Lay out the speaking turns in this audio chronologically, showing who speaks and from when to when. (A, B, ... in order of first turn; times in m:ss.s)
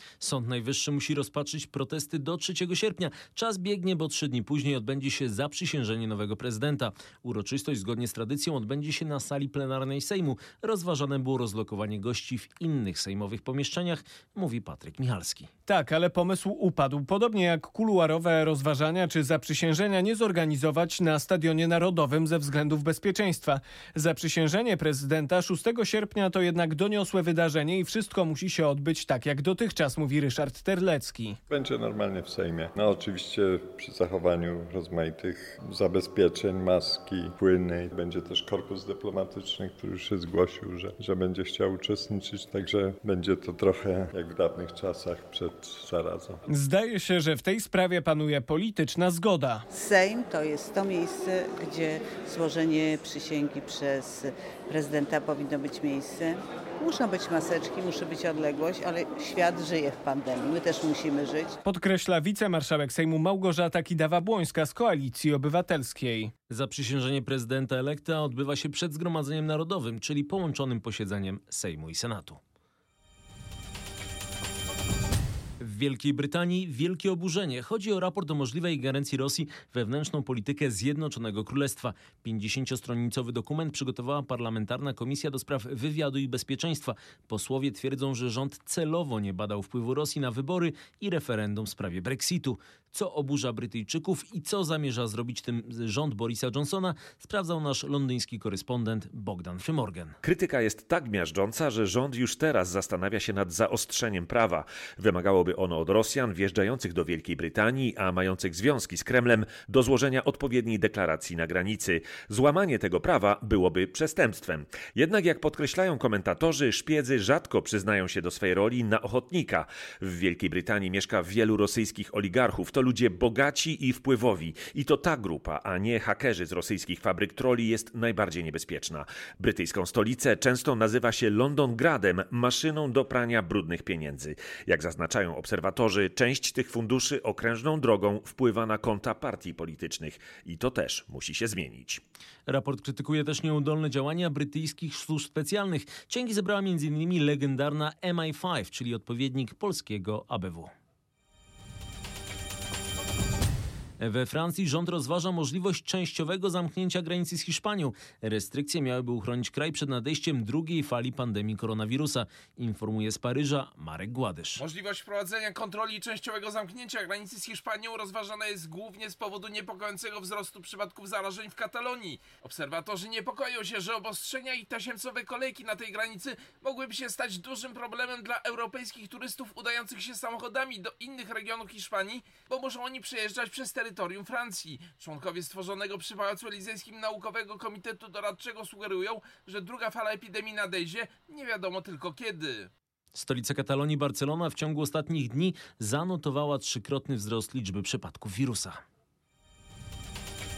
0:00.2-0:15.5 A
0:15.7-0:31.4 B
0:31.5-0:46.4 C
0:46.5-0:49.6 B
0:49.7-1:01.6 D
1:01.6-1:06.3 B
1:06.5-1:12.4 A
1:15.6-1:40.2 A
1:40.2-2:22.0 E
2:22.5-2:30.7 A
2:34.0-2:44.6 A
2:44.6-3:12.7 F
3:13.2-3:18.8 A